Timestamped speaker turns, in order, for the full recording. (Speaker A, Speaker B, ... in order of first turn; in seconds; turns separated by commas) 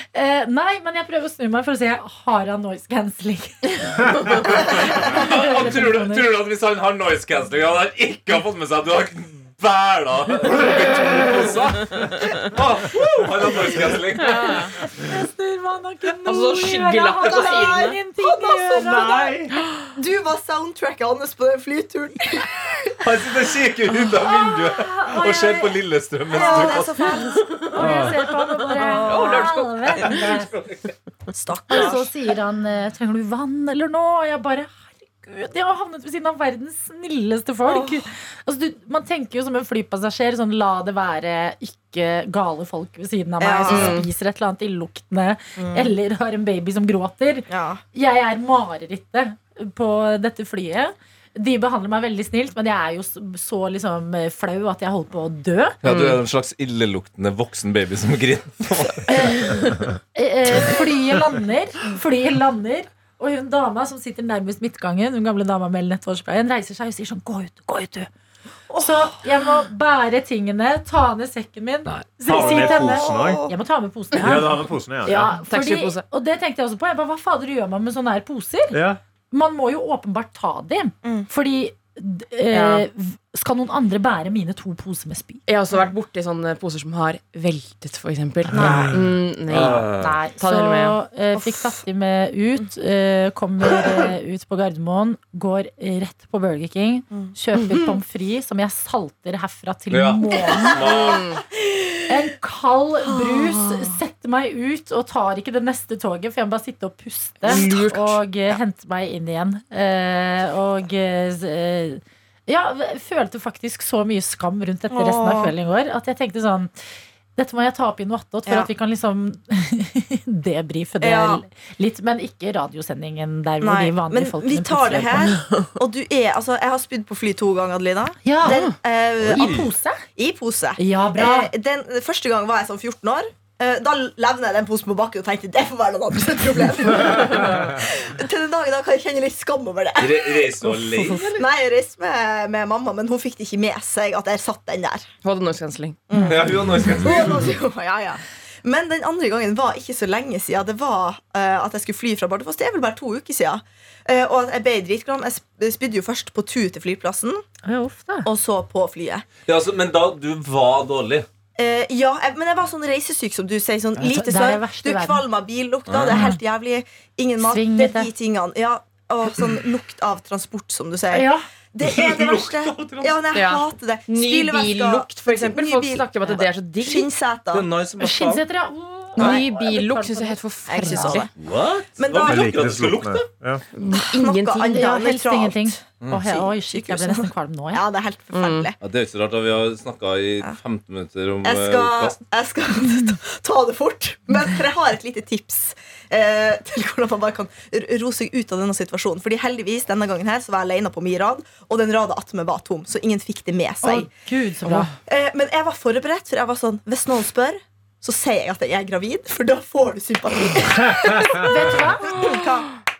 Speaker A: 0.1-6.3, Speaker B: 4.6-14.7, Speaker C: 13.0-14.0, Speaker D: 14.2-14.8, Speaker A: 14.8-19.3, Speaker D: 16.2-18.0, Speaker E: 17.3-19.1, Speaker C: 18.8-19.6, Speaker E: 19.9-23.0, Speaker B: 23.0-28.1, Speaker A: 24.2-25.8, Speaker E: 26.3-28.0, Speaker A: 26.3-30.5, Speaker C: 27.9-28.1, Speaker E: 28.7-29.5, Speaker D: 28.8-30.1, Speaker E: 31.3-32.1, Speaker A: 31.7-55.8, Speaker E: 37.7-38.0, Speaker E: 43.4-44.0, Speaker D: 43.7-44.1, Speaker E: 45.6-45.9, Speaker E: 47.5-47.8, Speaker B: 55.8-59.4, Speaker D: 55.9-56.2, Speaker A: 59.1-68.1, Speaker E: 68.7-69.1, Speaker A: 68.7-85.4, Speaker C: 72.3-73.5, Speaker E: 72.3-73.5, Speaker C: 74.2-75.3, Speaker D: 75.2-76.0, Speaker C: 78.7-79.0, Speaker D: 82.5-82.9, Speaker D: 85.5-91.0, Speaker C: 88.5-89.0, Speaker A: 88.5-89.0, Speaker B: 89.5-90.2, Speaker A: 89.5-100.8, Speaker E: 91.3-91.7, Speaker B: 99.9-101.4, Speaker D: 101.0-101.4, Speaker E: 101.6-102.0, Speaker A: 102.1-116.7, Speaker E: 103.1-103.9, Speaker D: 107.5-108.2, Speaker E: 114.9-115.5, Speaker A: 117.4-125.4, Speaker E: 121.0-121.4, Speaker E: 123.6-145.1, Speaker A: 128.2-128.8, Speaker D: 128.4-128.8, Speaker A: 129.3-130.0, Speaker A: 130.8-131.5, Speaker B: 140.0-141.3, Speaker A: 141.0-141.4, Speaker D: 145.2-146.0, Speaker E: 146.1-157.4, Speaker B: 146.2-147.5, Speaker A: 157.6-158.3, Speaker E: 158.2-159.3, Speaker B: 159.5-161.3, Speaker E: 161.6-177.7, Speaker A: 164.0-165.2, Speaker B: 165.9-166.3, Speaker A: 166.1-166.4, Speaker A: 167.4-168.1, Speaker A: 171.1-171.4, Speaker B: 171.8-173.2, Speaker D: 173.3-177.1, Speaker B: 177.5-178.4, Speaker A: 178.0-181.2, Speaker E: 179.2-179.4, Speaker D: 179.2-181.3, Speaker E: 180.7-181.3, Speaker B: 181.4-183.3, Speaker E: 182.0-182.6, Speaker C: 182.2-183.6, Speaker D: 183.7-184.9, Speaker E: 183.9-188.8, Speaker A: 184.7-187.8, Speaker D: 188.3-188.7, Speaker B: 188.8-192.2, Speaker E: 191.4-204.1, Speaker A: 203.8-204.9, Speaker D: 204.7-204.9, Speaker E: 205.1-212.7, Speaker A: 211.4-212.3